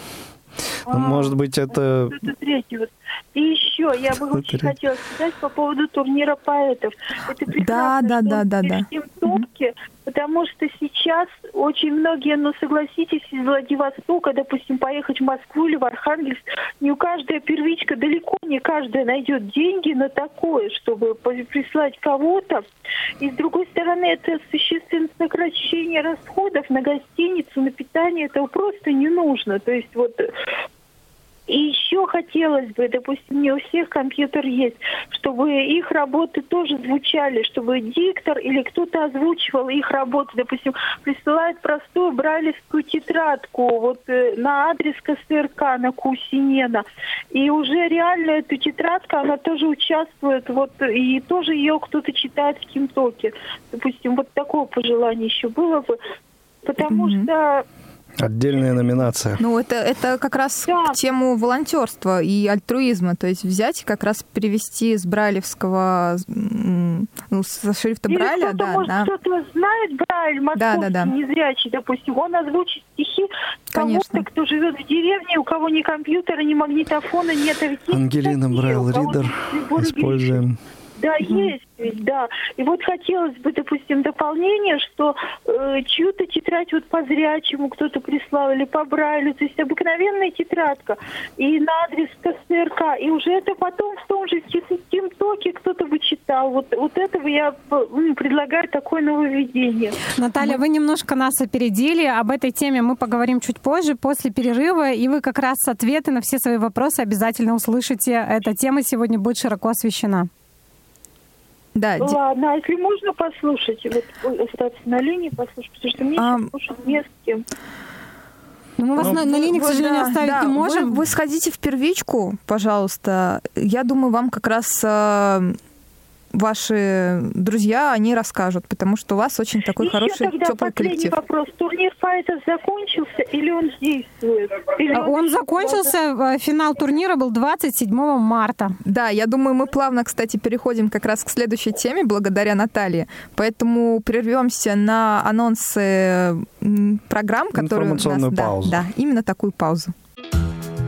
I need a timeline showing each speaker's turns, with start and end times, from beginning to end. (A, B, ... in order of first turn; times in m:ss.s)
0:00.9-0:02.2 A
0:00.9-0:01.4 B
0:02.1-0:22.6 B
0:04.3-0:04.8 A
0:07.6-0:09.4 C
0:23.2-0:30.3 B
0:31.5-0:56.0 B
0:56.6-0:57.6 B
0:56.8-0:57.3 C
0:58.2-0:59.4 A
0:59.4-1:09.1 C
1:00.7-1:00.9 B
1:08.1-1:20.4 B
1:10.6-1:11.1 C
1:13.7-1:14.2 C
1:17.9-1:20.6 A
1:21.0-1:40.0 B
1:21.3-1:21.5 C
1:40.2-1:50.3 D
1:51.8-1:52.2 C
1:52.0-1:57.4 B
1:56.2-1:56.5 C
1:58.8-2:01.0 D
1:59.0-2:05.6 C
2:06.3-2:11.2 C
2:09.8-2:15.9 B
2:14.9-2:18.8 D
2:18.8-2:29.9 C
2:27.5-2:28.8 A